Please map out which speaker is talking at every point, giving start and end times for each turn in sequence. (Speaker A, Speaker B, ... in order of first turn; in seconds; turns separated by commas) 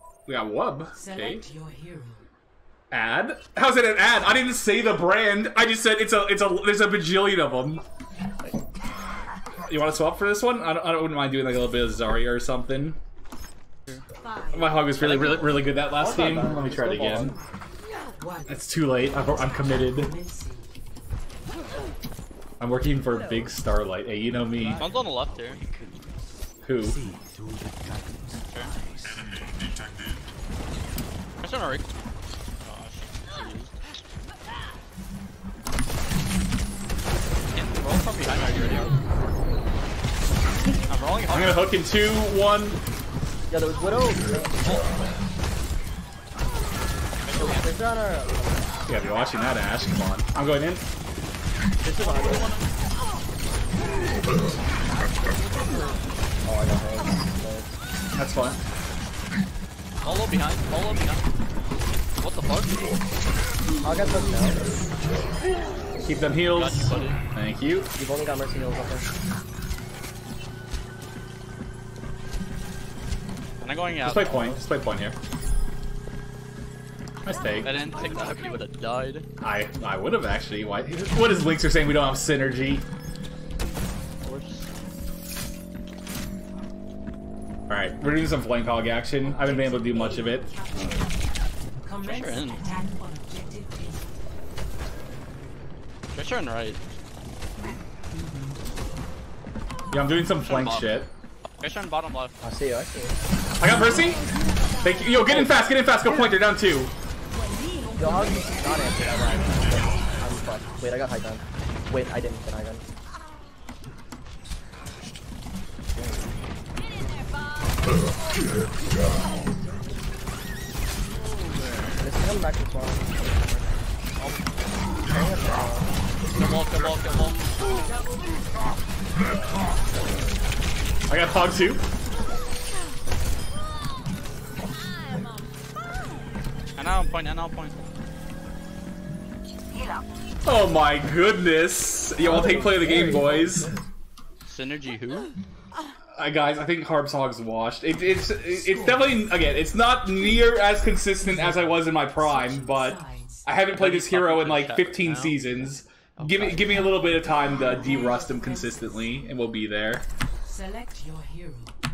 Speaker A: 0.2-1.5, Speaker B: 1.2-2.2, Speaker A: 2.9-7.8, Speaker A: 9.6-13.0, Speaker A: 14.5-17.4, Speaker C: 14.9-15.8, Speaker D: 15.9-17.4, Speaker A: 18.5-20.1, Speaker B: 20.0-20.6, Speaker A: 22.6-24.9, Speaker C: 24.6-25.6, Speaker A: 26.6-27.0, Speaker C: 28.5-28.8, Speaker C: 31.4-31.8, Speaker C: 32.6-33.7, Speaker C: 37.5-39.0, Speaker C: 40.8-41.7, Speaker A: 41.3-42.8, Speaker D: 43.5-44.8, Speaker C: 44.6-44.9, Speaker C: 47.2-47.7, Speaker D: 47.3-48.7, Speaker A: 48.9-50.8, Speaker D: 51.8-52.5, Speaker C: 51.8-52.7, Speaker C: 55.0-56.0, Speaker D: 56.4-57.7, Speaker A: 58.1-58.6, Speaker C: 60.0-61.2, Speaker C: 62.2-62.8, Speaker D: 63.8-64.7, Speaker A: 66.0-67.9, Speaker C: 66.5-67.2, Speaker D: 67.9-69.1, Speaker C: 73.6-74.6, Speaker A: 74.0-75.2, Speaker A: 77.2-77.7, Speaker C: 77.6-79.3, Speaker A: 79.4-82.8, Speaker C: 84.2-84.7, Speaker A: 87.7-90.5, Speaker C: 92.0-92.6, Speaker B: 92.0-94.0, Speaker C: 96.1-96.8, Speaker A: 99.9-101.1, Speaker C: 100.4-101.0, Speaker C: 101.6-102.3, Speaker D: 102.4-103.1, Speaker A: 103.6-104.2, Speaker A: 104.8-106.9, Speaker D: 105.2-105.5, Speaker D: 107.9-112.8, Speaker D: 122.0-123.9, Speaker D: 125.1-125.9, Speaker C: 126.3-127.4, Speaker A: 131.1-131.8, Speaker C: 136.8-137.9, Speaker A: 140.4-143.7, Speaker D: 142.2-143.7, Speaker C: 144.5-145.3, Speaker A: 146.2-160.0, Speaker C: 153.7-155.4, Speaker C: 156.2-157.1, Speaker B: 160.5-161.7